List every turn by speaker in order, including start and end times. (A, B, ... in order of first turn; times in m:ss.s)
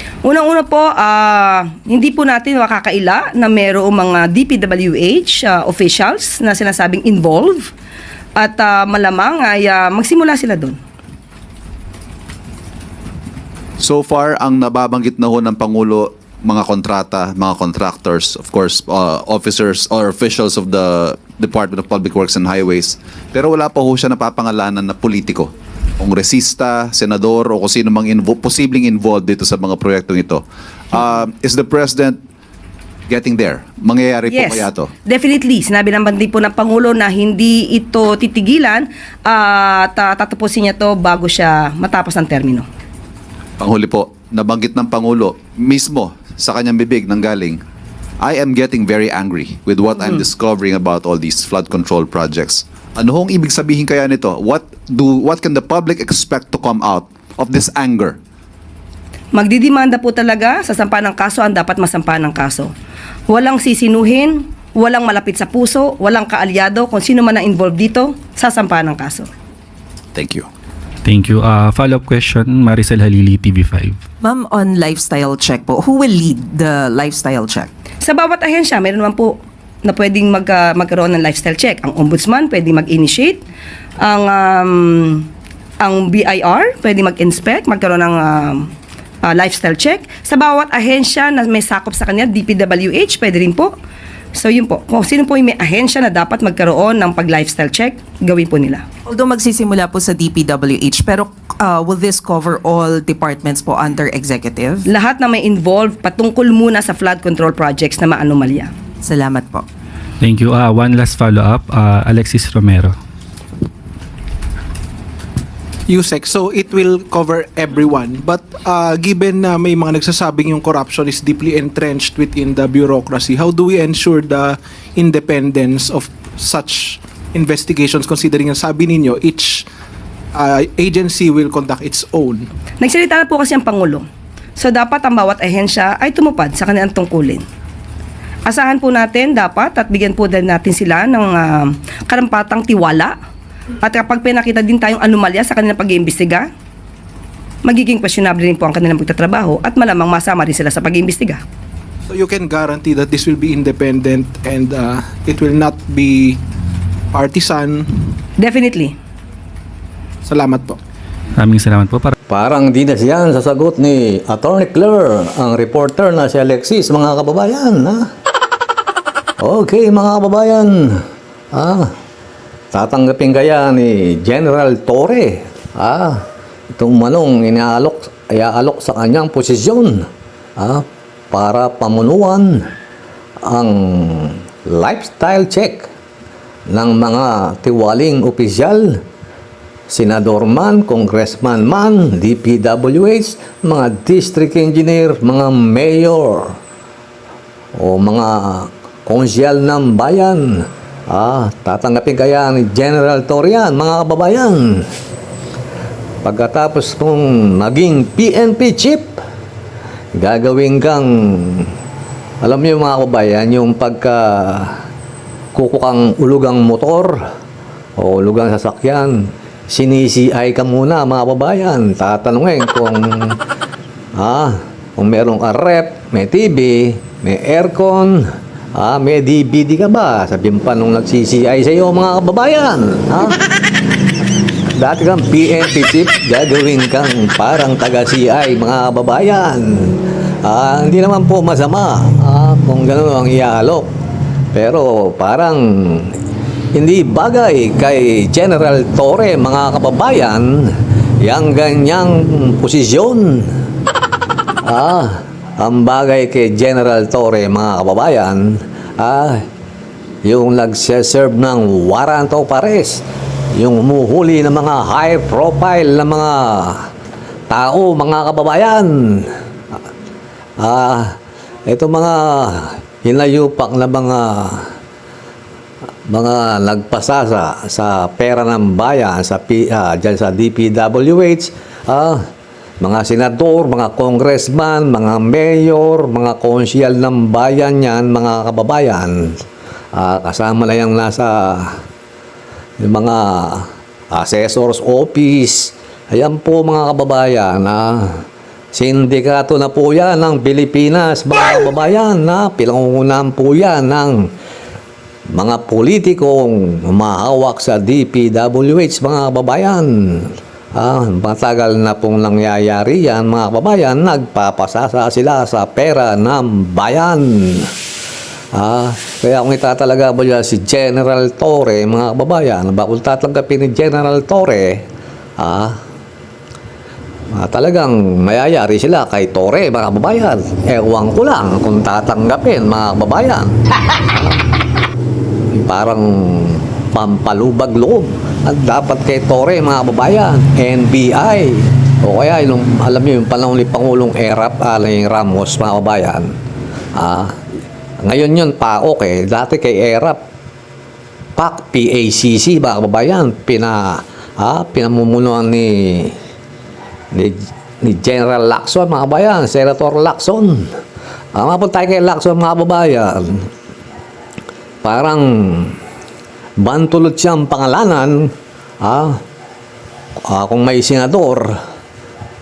0:00.2-0:07.7 A
0:08.4-0:10.8 A
0:13.8-0:32.2 B
0:33.1-0:34.9 B
0:34.3-0:42.6 A
0:43.6-0:47.6 B
0:48.2-0:58.2 B
0:59.3-1:02.7 A
1:03.3-1:09.3 A
1:10.2-1:10.5 B
1:11.0-1:14.0 C
1:14.2-1:17.7 D
1:18.0-1:23.4 A
1:24.0-1:25.3 A
1:25.8-1:28.7 A
1:29.2-1:33.7 A
1:34.4-1:38.8 A
1:39.1-1:44.8 D
1:44.9-1:48.7 A
1:49.0-1:49.6 D
1:50.2-1:52.9 C
1:55.9-2:09.6 E
2:10.3-2:12.5 E
2:12.8-2:14.0 A
2:14.6-2:17.4 A
2:18.5-2:23.1 A
2:23.8-2:26.5 A
2:27.6-2:31.4 A
2:32.1-2:36.4 E
2:37.1-2:37.9 E
2:38.4-2:38.9 A
2:40.2-2:40.8 E
2:41.4-2:42.2 C
2:42.3-2:48.1 F
2:49.4-2:51.0 F
2:51.5-2:51.9 F
2:52.7-2:56.2 F
2:56.7-3:00.0 F
3:00.6-3:02.6 F
3:03.4-3:05.9 F
3:06.7-3:09.0 F
3:09.9-3:16.6 F
3:17.8-3:20.4 F
3:21.1-3:24.8 F
3:26.2-3:29.2 F
3:30.2-3:31.7 F
3:32.4-3:34.7 F
3:35.5-3:37.2 F
3:38.0-3:43.4 F
3:44.2-3:48.2 F
3:48.7-3:53.4 F
3:54.8-4:03.9 F
4:04.5-4:06.2 F
4:06.7-4:10.6 F
4:11.2-4:13.4 F
4:14.6-4:19.4 F
4:20.2-4:23.0 F
4:23.6-4:26.8 F
4:27.5-4:29.2 F
4:30.6-4:31.1 F
4:31.7-4:34.6 F
4:36.1-4:42.2 F
4:42.8-4:49.3 F
4:49.9-4:51.7 F
4:52.8-4:58.0 F
4:58.7-5:04.2 F
5:05.3-5:17.7 F
5:18.5-5:24.8 F
5:25.4-5:25.7 F
5:27.4-5:33.5 F
5:35.6-5:46.3 F
5:47.0-5:47.3 F
5:48.0-5:50.2 F
5:51.4-5:56.1 F
5:57.1-6:00.6 F
6:01.3-6:03.5 F
6:04.8-6:05.8 F
6:06.6-6:08.3 F
6:08.8-6:09.1 F
6:10.3-6:11.5 F